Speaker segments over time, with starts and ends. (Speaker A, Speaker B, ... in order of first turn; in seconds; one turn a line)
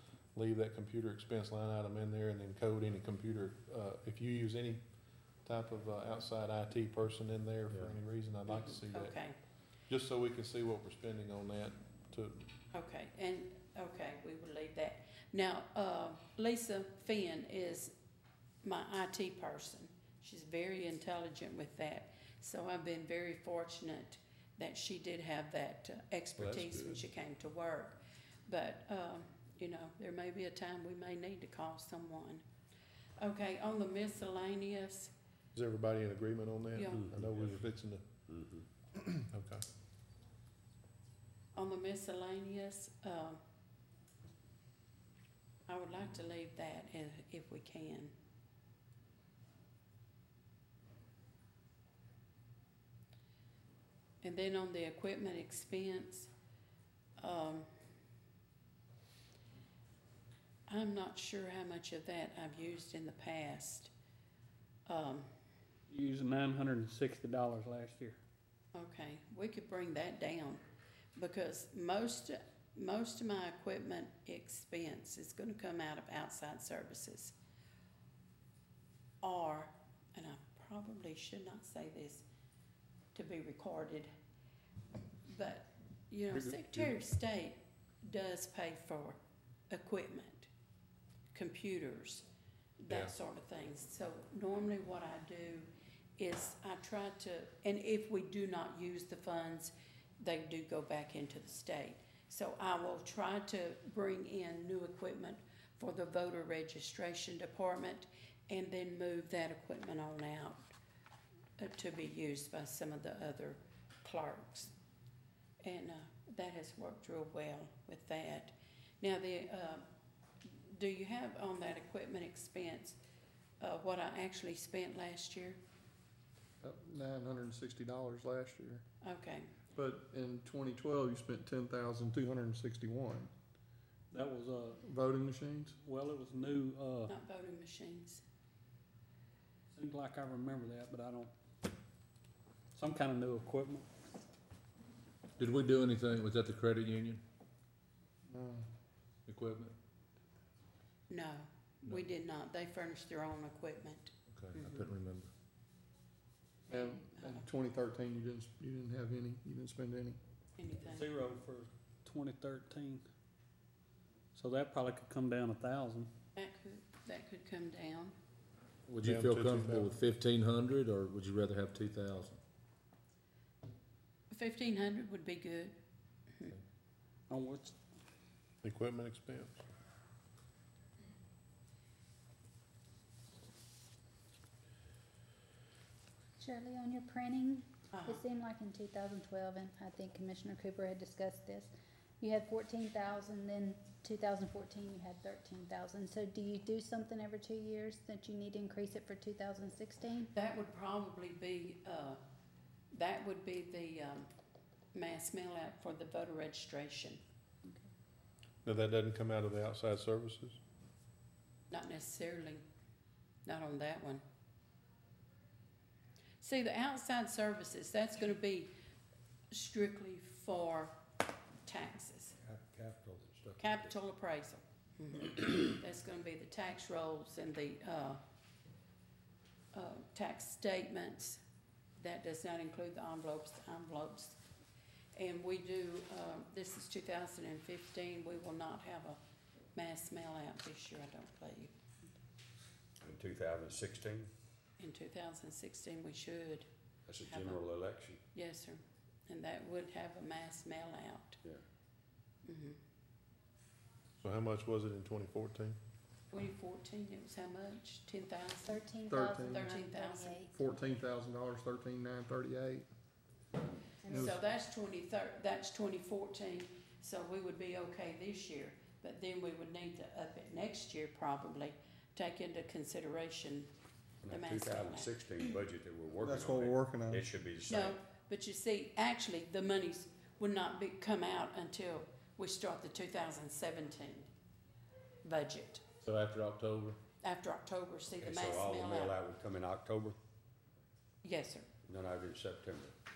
Speaker A: 0.3-4.8
Speaker A: 5.4-9.1
Speaker B: 8.5-9.4
Speaker A: 9.9-12.4
Speaker B: 12.7-17.9
Speaker B: 18.6-32.4
Speaker A: 26.4-27.0
Speaker B: 33.2-35.1
Speaker A: 35.5-38.0
Speaker B: 36.7-37.1
Speaker C: 38.3-38.6
Speaker A: 39.2-39.6
Speaker B: 41.5-43.4
Speaker B: 45.7-48.1
Speaker B: 54.2-56.3
Speaker B: 57.2-57.7
Speaker B: 60.7-63.9
Speaker B: 64.9-65.3
Speaker D: 65.9-68.2
Speaker B: 68.7-70.6
Speaker B: 71.2-77.3
Speaker B: 79.2-82.2
Speaker B: 83.1-84.1
Speaker B: 85.3-89.2
Speaker B: 89.7-90.5
Speaker B: 91.3-92.2
Speaker B: 92.8-110.7
Speaker B: 111.6-114.7
Speaker B: 115.6-119.8
Speaker B: 120.7-123.0
Speaker B: 123.6-125.6
Speaker E: 126.6-128.8
Speaker B: 129.0-129.5
Speaker E: 129.7-133.3
Speaker D: 134.1-134.8
Speaker E: 134.8-135.8
Speaker D: 135.8-137.1
Speaker B: 137.1-138.2
Speaker D: 139.7-141.3
Speaker D: 142.8-143.8
Speaker F: 145.4-147.2
Speaker E: 148.3-148.7
Speaker F: 149.3-149.7
Speaker B: 151.1-154.8
Speaker F: 154.3-155.3
Speaker B: 156.7-157.4
Speaker E: 156.7-160.2
Speaker B: 160.6-161.1
Speaker D: 160.8-163.0
Speaker D: 164.3-166.1
Speaker B: 166.3-168.1
Speaker F: 168.9-172.4
Speaker A: 169.0-169.9
Speaker B: 174.3-175.8
Speaker D: 177.3-177.7
Speaker A: 178.6-179.6
Speaker G: 186.4-200.3
Speaker B: 187.9-188.2
Speaker B: 200.3-202.2
Speaker B: 202.9-204.3
Speaker B: 204.9-207.2
Speaker A: 208.6-210.6
Speaker B: 211.7-212.6
Speaker B: 213.4-214.2
Speaker B: 216.4-218.7
Speaker B: 219.5-220.9
Speaker B: 221.7-222.3
Speaker C: 222.4-223.8
Speaker B: 223.6-228.2
Speaker B: 229.7-231.4
Speaker B: 232.0-234.4
Speaker B: 235.2-239.2
Speaker B: 239.7-241.7
Speaker C: 243.0-244.3
Speaker B: 244.8-246.7
Speaker C: 247.1-248.2
Speaker B: 247.2-247.6
Speaker B: 248.3-251.4
Speaker B: 252.4-252.8
Speaker A: 254.2-255.8
Speaker B: 256.3-258.8
Speaker G: 258.6-260.6
Speaker E: 259.1-259.7
Speaker B: 259.5-260.4
Speaker E: 260.5-262.9
Speaker B: 264.1-273.7
Speaker E: 264.1-264.4
Speaker C: 274.2-278.0
Speaker B: 274.2-275.4
Speaker E: 276.1-277.3
Speaker B: 277.6-284.3
Speaker B: 285.2-285.8
Speaker A: 286.1-286.9
Speaker B: 287.2-289.2
Speaker C: 288.2-290.2
Speaker B: 291.2-291.7
Speaker C: 291.9-292.9